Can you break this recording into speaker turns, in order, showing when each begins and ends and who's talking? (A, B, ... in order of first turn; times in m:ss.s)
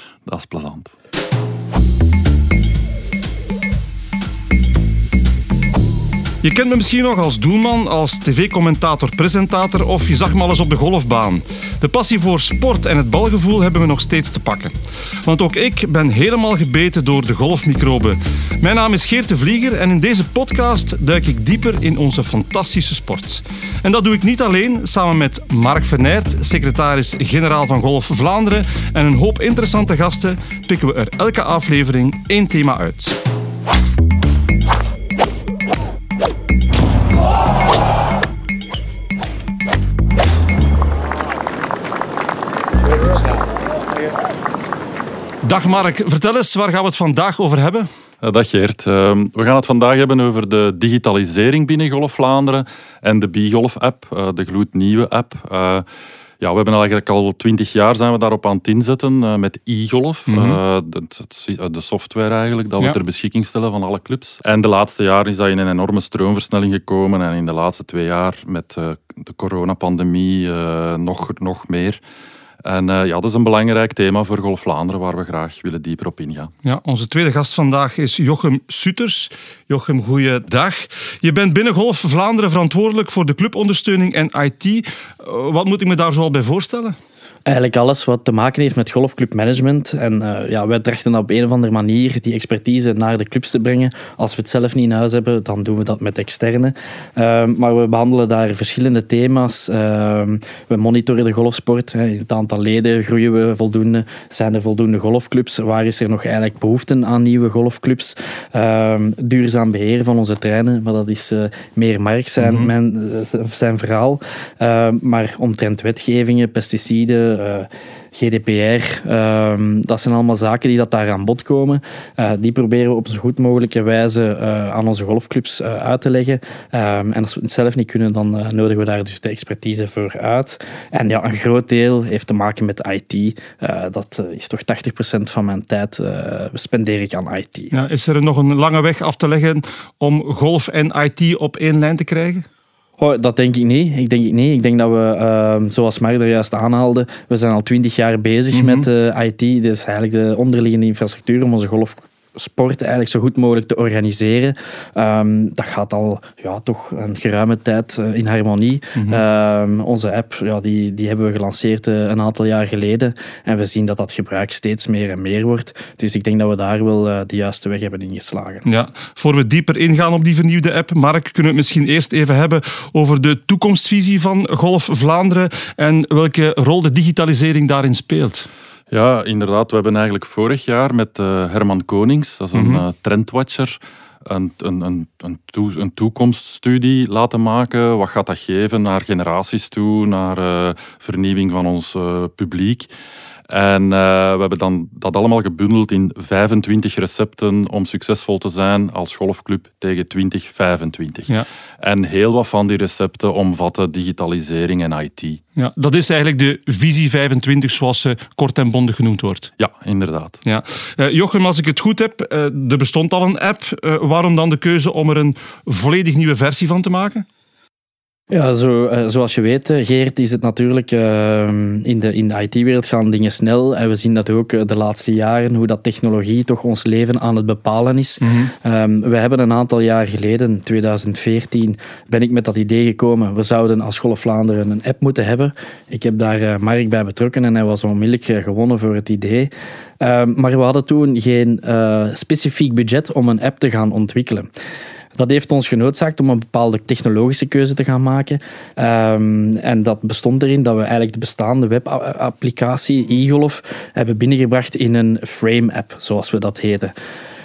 0:00.3-0:00.9 A
0:06.4-0:14.7 B
0:15.2-0:33.2 B
0:45.4-0:47.9 B
0:48.2-0:55.8 A
0:56.4-1:12.0 A
1:00.3-1:00.6 B
1:12.6-1:16.5 A
1:16.6-1:27.0 B
1:27.5-2:17.7 C
1:52.4-1:52.7 B
2:17.7-2:22.4 B
2:23.0-2:48.6 C
2:28.5-2:28.9 B
2:39.0-2:39.2 B
2:48.6-2:58.5 B
2:58.9-3:12.9 A
3:02.5-3:02.8 B
3:13.5-3:25.4 A
3:25.6-3:29.5 B
3:29.6-3:30.4 A
3:30.4-3:37.2 B
3:38.3-4:04.5 C
3:48.2-3:48.5 B
4:05.2-4:16.9 C